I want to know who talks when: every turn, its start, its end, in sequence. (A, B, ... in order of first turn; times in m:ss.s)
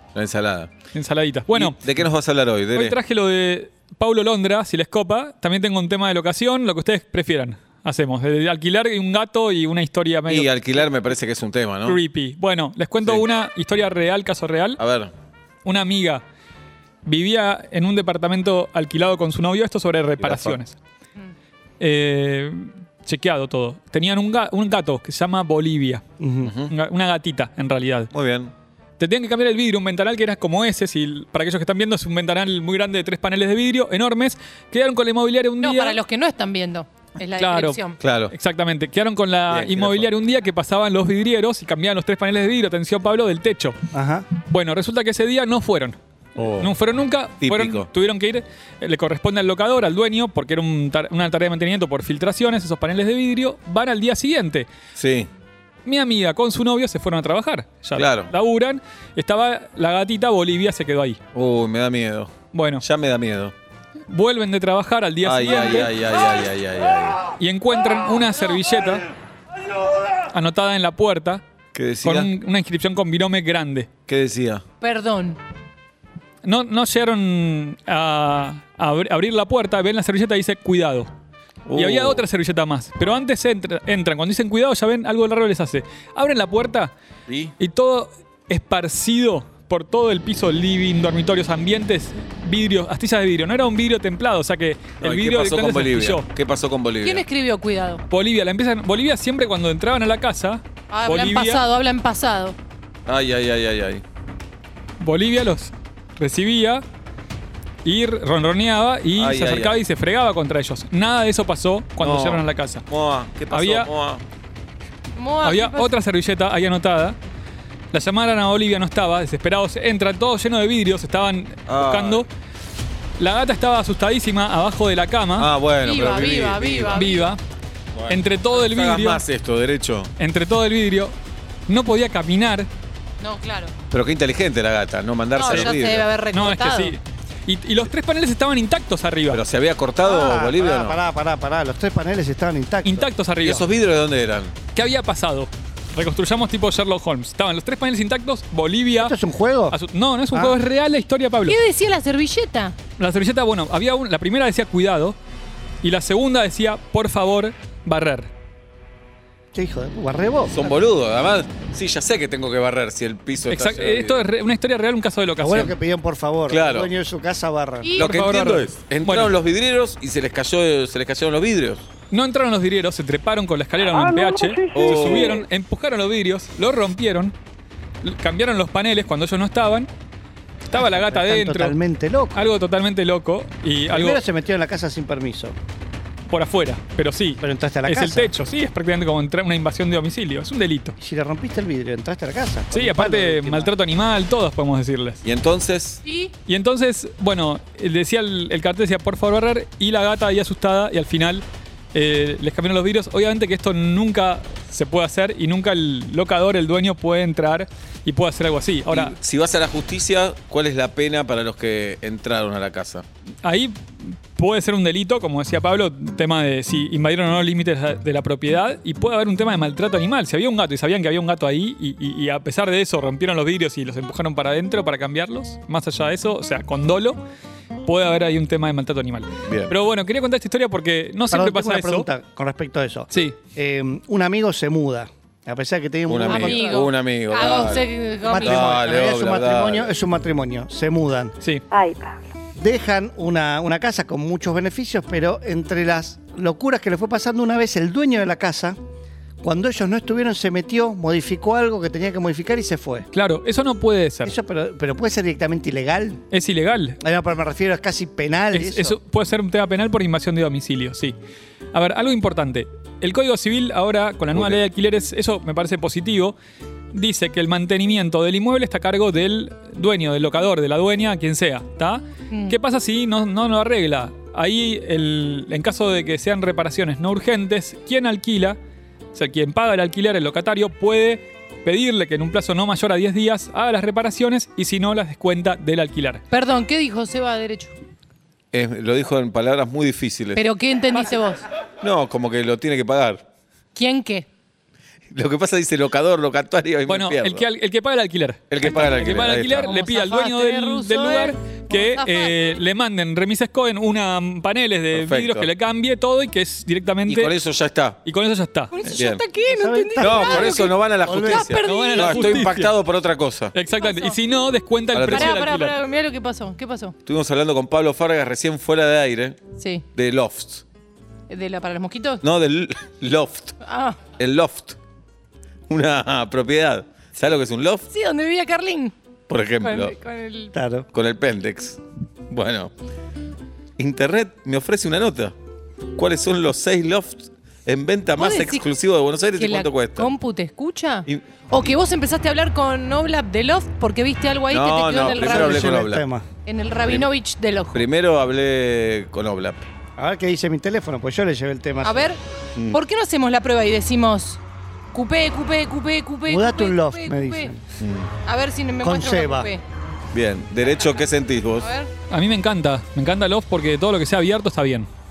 0:00.1-0:00.7 A
0:00.9-0:01.8 B
0:01.5-0:03.0 A
0:02.7-0:10.5 B
0:10.3-0:12.0 A
0:11.8-0:14.8 B
0:14.8-0:15.1 A
0:15.6-0:16.2 B
0:17.0-0:20.8 B
0:20.2-0:20.6 A
0:21.8-0:26.0 B
0:26.2-0:26.5 C
0:26.4-0:26.7 A
0:26.7-0:28.1 B
0:28.1-0:28.5 A
0:29.0-0:36.0 B
0:35.6-0:38.0 D
0:37.4-0:43.8 B
0:38.0-0:38.3 A
0:39.5-0:40.1 A
0:43.9-0:44.2 C
0:44.4-0:46.0 B
0:46.4-0:46.7 A
0:46.6-0:54.7 B
0:47.4-0:47.9 A
0:55.0-0:55.3 A
0:55.8-1:01.2 B
0:57.9-0:58.3 A
1:01.3-1:03.5 A
1:02.5-1:02.8 B
1:04.1-1:05.9 B
1:05.2-1:07.2 A
1:07.4-1:09.0 B
1:10.3-1:11.4 B
1:11.7-1:12.3 A
1:12.0-1:13.9 B
1:14.1-1:14.6 A
1:14.8-1:15.4 D
1:16.4-1:21.1 B
1:21.6-1:22.2 A
1:21.7-1:26.9 B
1:27.3-1:27.5 A
1:27.6-1:36.3 B
1:35.0-1:37.2 A
1:37.0-1:38.0 D
1:38.1-1:41.6 B
1:40.9-1:42.6 D
1:43.1-1:44.0 A
1:45.0-1:46.8 B
1:47.8-1:52.8 B
1:49.2-1:49.8 A
1:52.0-1:54.2 A
1:53.5-1:53.9 B
1:55.1-1:55.9 D
1:55.4-1:57.2 B
1:57.9-2:02.3 B
2:01.7-2:02.2 A
2:03.2-2:05.5 B
2:05.4-2:07.0 A
2:05.8-2:07.3 D
2:06.9-2:07.4 B
2:07.9-2:10.1 A
2:08.1-2:09.2 B
2:10.2-2:11.1 B
2:11.7-2:12.7 B
2:13.2-2:13.7 D
2:13.9-2:16.1 A
2:15.3-2:17.0 D
2:15.5-2:15.8 B
2:16.3-2:19.4 B
2:19.3-2:21.0 A
2:20.0-2:23.4 C
2:22.8-2:23.7 B
2:23.4-2:24.5 A
2:24.7-2:29.1 B
2:28.9-2:29.8 C
2:29.7-2:31.6 B
2:30.3-2:30.6 C
2:31.4-2:32.8 D
2:33.0-2:35.2 B
2:35.8-2:38.3 B
2:39.5-2:40.7 C
2:40.5-2:44.2 A
2:43.5-2:45.7 B
2:45.4-2:47.9 C
2:46.5-2:46.9 A
2:47.8-2:48.1 D
2:48.0-2:49.3 B
2:48.0-2:51.8 A
2:52.1-2:57.3 B
2:53.9-2:55.2 E
2:54.7-2:55.4 A
2:58.0-2:59.9 B
3:00.6-3:01.8 B
3:00.7-3:02.4 C
3:02.3-3:04.2 B
3:03.9-3:05.6 C
3:06.3-3:10.9 B
3:07.4-3:08.3 C
3:11.0-3:13.7 C
3:12.7-3:15.2 B
3:15.2-3:16.0 A
3:16.0-3:16.3 D
3:16.4-3:29.1 B
3:28.9-3:33.0 A
3:33.4-3:47.2 B
3:47.8-3:52.1 B
3:49.4-3:49.7 A
3:51.3-3:56.8 C
3:53.1-3:53.4 B
3:56.1-3:59.9 A
3:56.3-3:58.6 D
3:58.3-4:01.3 C
4:01.7-4:02.3 E
4:02.6-4:08.8 C
4:09.4-4:13.0 C
4:13.1-4:14.3 B
4:14.2-4:16.2 C
4:16.3-4:17.0 B
4:17.0-4:19.0 C
4:18.5-4:21.2 B
4:21.7-4:26.4 B
4:24.3-4:24.6 A
4:26.9-4:38.6 B
4:32.3-4:32.6 D
4:39.1-4:46.2 B
4:46.3-4:47.7 D
4:48.5-4:50.4 A
4:50.3-4:51.4 D
4:51.8-4:53.2 A
4:53.7-4:54.3 D
4:55.1-4:57.4 A
4:56.9-5:07.4 B
4:58.5-4:59.7 A
4:58.6-4:59.0 D
4:59.5-5:02.6 D
5:04.9-5:05.5 A
5:07.0-5:08.0 A
5:08.0-5:08.7 B
5:08.7-5:12.2 D
5:09.0-5:09.2 A
5:09.5-5:11.6 C
5:10.0-5:13.5 A
5:11.6-5:12.8 B
5:13.5-5:15.8 B
5:13.8-5:14.2 D
5:14.9-5:15.4 A
5:15.1-5:16.9 D
5:17.0-5:19.4 A
5:19.6-5:19.9 D
5:19.9-5:20.6 A
5:21.3-5:22.2 D
5:22.2-5:23.5 A
5:23.6-5:24.0 D
5:24.2-5:24.8 A
5:25.7-5:27.8 A
5:27.9-5:28.9 D
5:29.3-5:29.9 A
5:29.6-5:30.5 D
5:30.5-5:30.9 C
5:30.9-5:32.7 A
5:33.8-5:35.3 A
5:36.0-5:40.1 A
5:38.2-5:38.6 D
5:39.3-5:45.7 D
5:41.0-5:41.8 A
5:44.5-5:46.0 A
5:45.0-5:46.2 C
5:46.4-5:47.9 D
5:47.7-5:49.7 A
5:50.0-5:52.1 C
5:51.8-5:54.4 D
5:54.9-5:57.5 D
5:56.3-5:57.6 C
5:57.8-5:58.1 A
5:58.2-5:59.6 D
5:58.8-5:59.5 C
6:00.1-6:01.7 A
6:01.6-6:01.9 D
6:02.1-6:04.9 B